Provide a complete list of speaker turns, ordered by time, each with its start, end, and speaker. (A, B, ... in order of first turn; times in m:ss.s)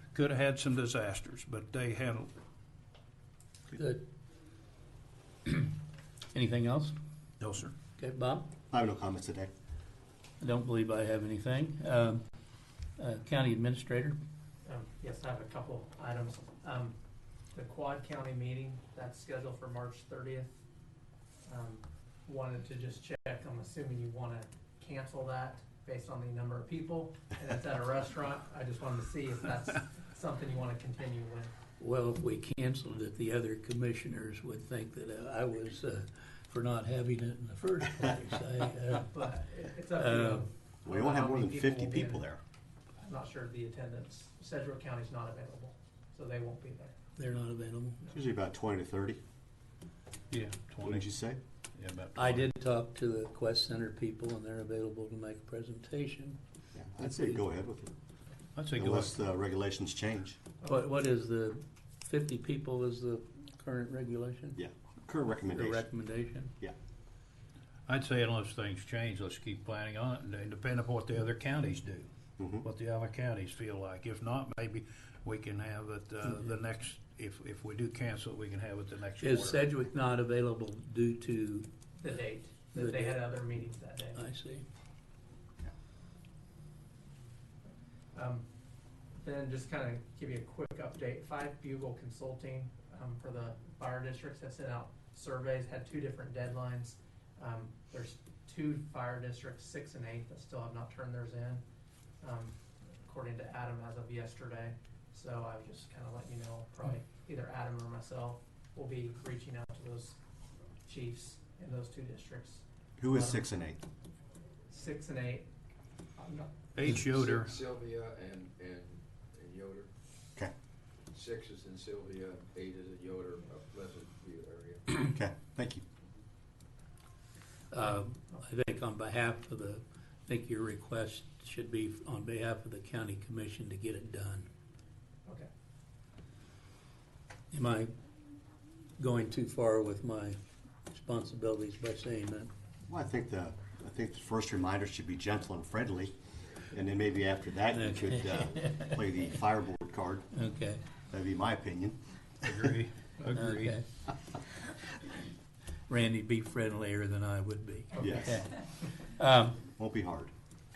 0:00.1-0:02.3 A
0:03.7-0:04.0 B
0:06.3-0:06.9 B
0:07.4-0:07.7 A
0:08.0-0:08.5 B
0:08.7-0:09.5 C
0:10.4-0:12.2 B
0:13.0-0:14.2 B
0:14.6-0:16.9 D
0:17.5-0:20.5 D
0:21.4-0:31.5 D
0:31.8-0:39.1 B
0:39.0-0:42.2 D
0:39.9-0:40.4 B
0:40.8-0:42.4 C
0:43.0-0:47.0 D
0:47.2-0:48.0 B
0:48.1-0:49.2 C
0:50.3-0:51.1 A
0:50.8-0:51.4 C
0:51.7-0:52.5 A
0:52.2-0:56.4 B
0:56.7-0:57.9 C
0:58.6-0:59.1 A
0:58.7-1:00.4 C
1:00.6-1:04.6 B
1:04.6-1:05.9 C
1:05.5-1:06.5 B
1:07.9-1:12.1 A
1:12.4-1:12.6 C
1:12.6-1:19.6 A
1:19.2-1:21.7 B
1:22.0-1:24.2 D
1:22.7-1:23.2 B
1:24.1-1:24.6 B
1:28.1-1:28.4 D
1:29.1-1:41.6 D
1:42.2-1:50.2 D
1:50.8-1:53.4 D
1:53.0-1:53.8 C
1:54.7-1:55.5 D
1:56.2-1:56.5 D
1:56.7-1:57.6 A
1:57.0-1:59.9 E
2:01.1-2:04.8 E
2:04.9-2:05.8 C
2:07.7-2:14.5 B
2:17.5-2:17.9 B
2:19.0-2:22.5 B
2:22.9-2:26.1 C
2:26.7-2:30.3 C
2:27.7-2:29.0 B
2:30.3-2:30.8 B
2:31.1-2:32.0 C
2:32.4-2:33.8 A
2:33.3-2:33.8 B
2:35.9-2:39.6 B
2:38.0-2:38.4 C
2:39.7-2:40.3 C